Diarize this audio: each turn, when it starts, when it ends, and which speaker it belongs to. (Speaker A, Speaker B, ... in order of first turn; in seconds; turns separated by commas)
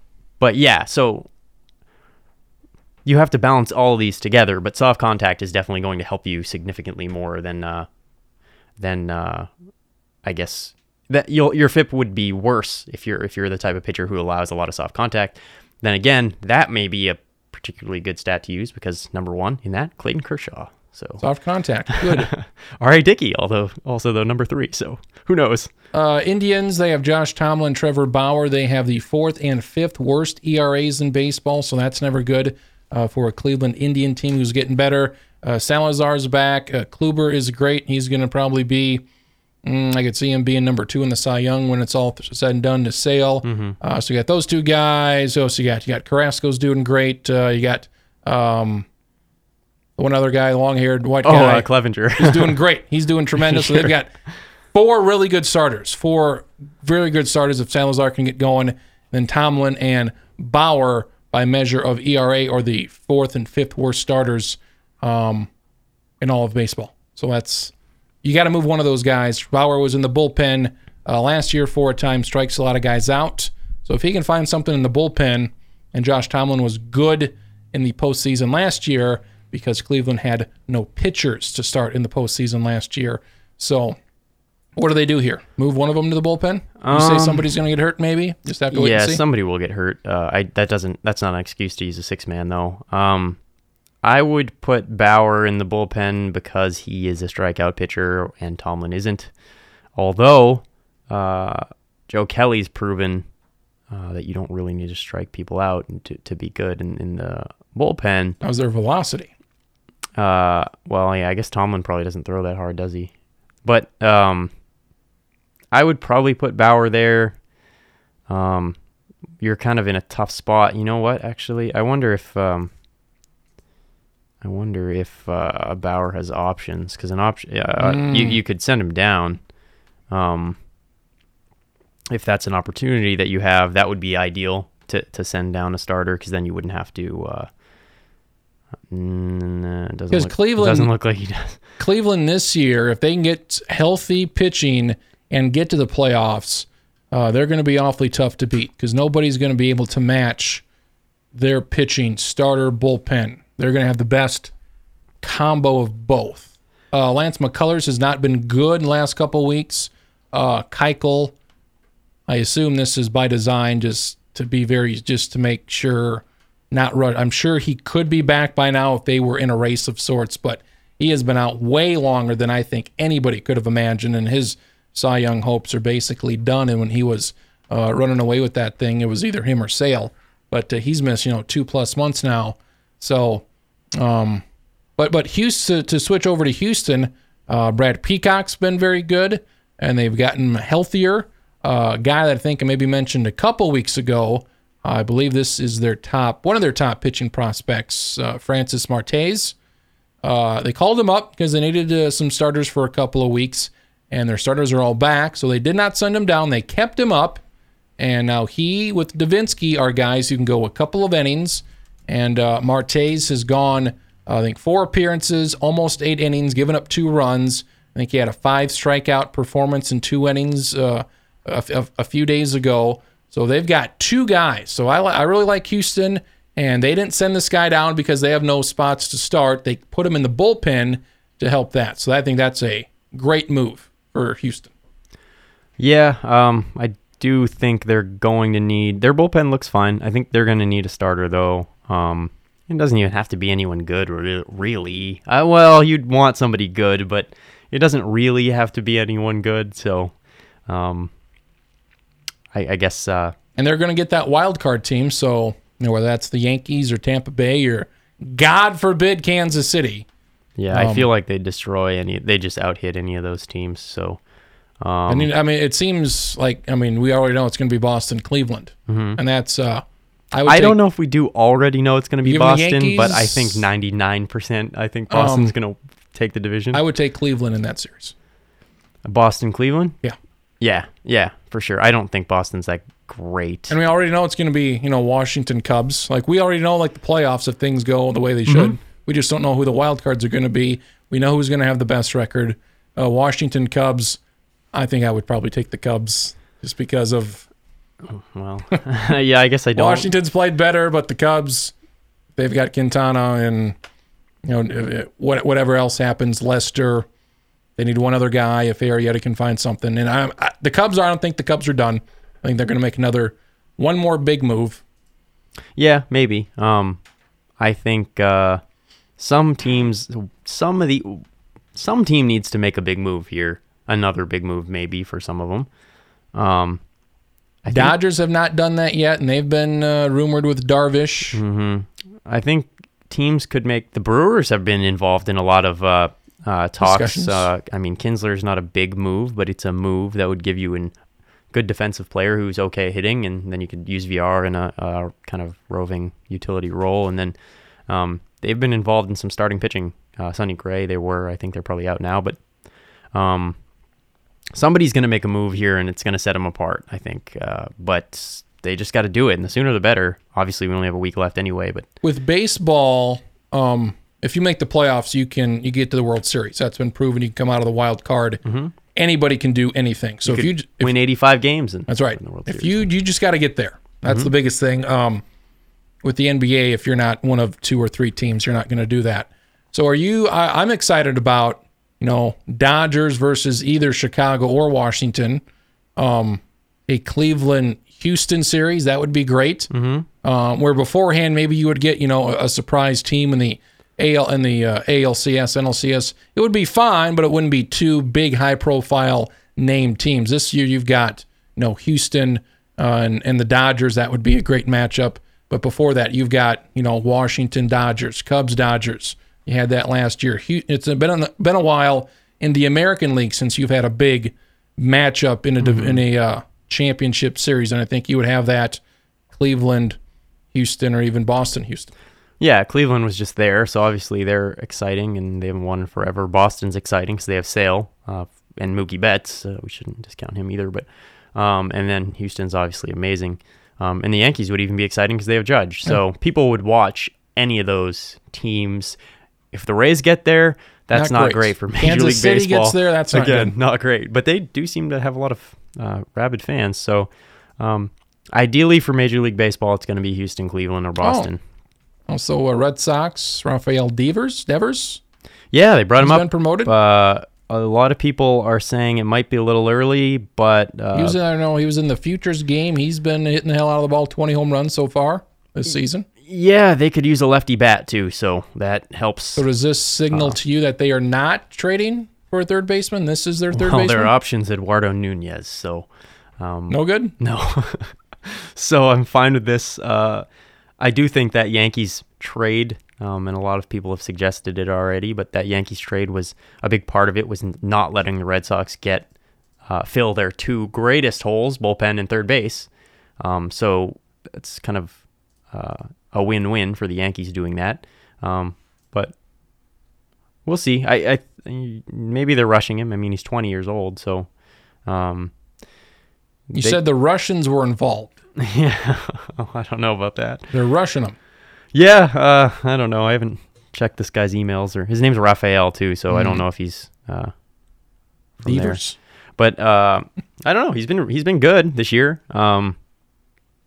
Speaker A: 0.4-1.3, Speaker A: 3.0-7.9, Speaker A: 8.8-9.5, Speaker A: 10.2-21.2, Speaker B: 21.2-22.3, Speaker A: 21.9-25.7, Speaker B: 25.9-39.0, Speaker B: 39.6-48.9, Speaker A: 43.4-43.8, Speaker B: 50.0-54.1, Speaker A: 51.2-52.6, Speaker A: 53.4-53.9, Speaker B: 54.7-65.5, Speaker B: 66.2-84.0, Speaker B: 84.8-89.2, Speaker A: 86.8-87.5, Speaker A: 88.7-93.4, Speaker A: 94.0-99.3, Speaker A: 99.9-103.2, Speaker A: 103.9-108.4, Speaker B: 108.4-109.3, Speaker A: 110.2-113.1, Speaker A: 113.6-114.5, Speaker A: 115.7-117.3, Speaker A: 118.3-118.8, Speaker A: 119.4-122.7, Speaker A: 124.4-129.4, Speaker B: 127.8-128.4, Speaker A: 130.1-130.6, Speaker A: 132.1-137.5, Speaker A: 138.9-141.6, Speaker B: 140.1-140.9, Speaker B: 141.8-150.6, Speaker B: 151.3-154.5, Speaker B: 155.2-161.3, Speaker B: 162.3-183.4, Speaker B: 184.0-184.4, Speaker B: 185.0-199.6, Speaker B: 200.2-207.4, Speaker B: 208.0-234.7, Speaker A: 235.8-250.1, Speaker A: 250.7-251.1, Speaker A: 252.5-253.3, Speaker B: 253.6-260.1, Speaker A: 260.6-264.2, Speaker B: 260.7-261.1, Speaker A: 264.8-265.3, Speaker B: 265.1-270.8, Speaker A: 268.9-269.2, Speaker A: 270.4-276.8, Speaker B: 272.2-273.7, Speaker B: 275.1-275.5, Speaker B: 276.7-278.1, Speaker A: 279.0-280.0, Speaker A: 280.6-283.7, Speaker B: 283.7-294.2, Speaker A: 288.4-288.8, Speaker B: 294.7-297.5, Speaker A: 298.0-300.1, Speaker B: 299.7-301.7, Speaker B: 302.4-303.8, Speaker B: 304.4-307.1, Speaker B: 307.8-314.8, Speaker A: 315.8-317.0, Speaker A: 317.6-318.6, Speaker A: 319.2-325.7, Speaker A: 326.3-326.8, Speaker A: 327.6-327.9, Speaker B: 327.7-331.4, Speaker A: 331.3-340.9, Speaker B: 336.8-337.5, Speaker A: 341.5-347.3, Speaker A: 347.9-352.4, Speaker A: 353.1-353.6, Speaker A: 354.5-361.9, Speaker B: 362.0-368.4, Speaker A: 368.4-368.7, Speaker B: 368.9-370.9, Speaker A: 370.2-372.9, Speaker B: 371.9-375.2, Speaker A: 374.0-374.3, Speaker B: 376.0-385.4, Speaker B: 386.0-389.7, Speaker A: 389.7-390.1, Speaker B: 390.2-418.8, Speaker A: 415.6-416.0, Speaker B: 419.3-420.0, Speaker B: 420.5-421.9, Speaker A: 422.4-439.0, Speaker A: 439.5-451.4, Speaker B: 440.9-443.5, Speaker B: 451.0-451.3, Speaker B: 452.1-455.0, Speaker A: 455.5-461.2, Speaker B: 456.0-456.7, Speaker B: 460.9-466.1, Speaker A: 466.2-469.4, Speaker B: 469.4-474.1, Speaker A: 470.1-470.4, Speaker A: 473.5-475.9, Speaker A: 476.4-480.2, Speaker B: 476.7-477.1, Speaker A: 480.8-489.1, Speaker A: 489.6-495.0, Speaker A: 495.5-499.1, Speaker A: 500.4-504.3, Speaker A: 504.9-505.3, Speaker B: 506.5-508.1, Speaker A: 506.5-506.8, Speaker A: 508.4-510.5, Speaker B: 510.5-511.1, Speaker A: 511.7-517.3, Speaker B: 516.1-516.4, Speaker A: 518.4-518.8, Speaker B: 518.5-519.0, Speaker A: 519.4-522.8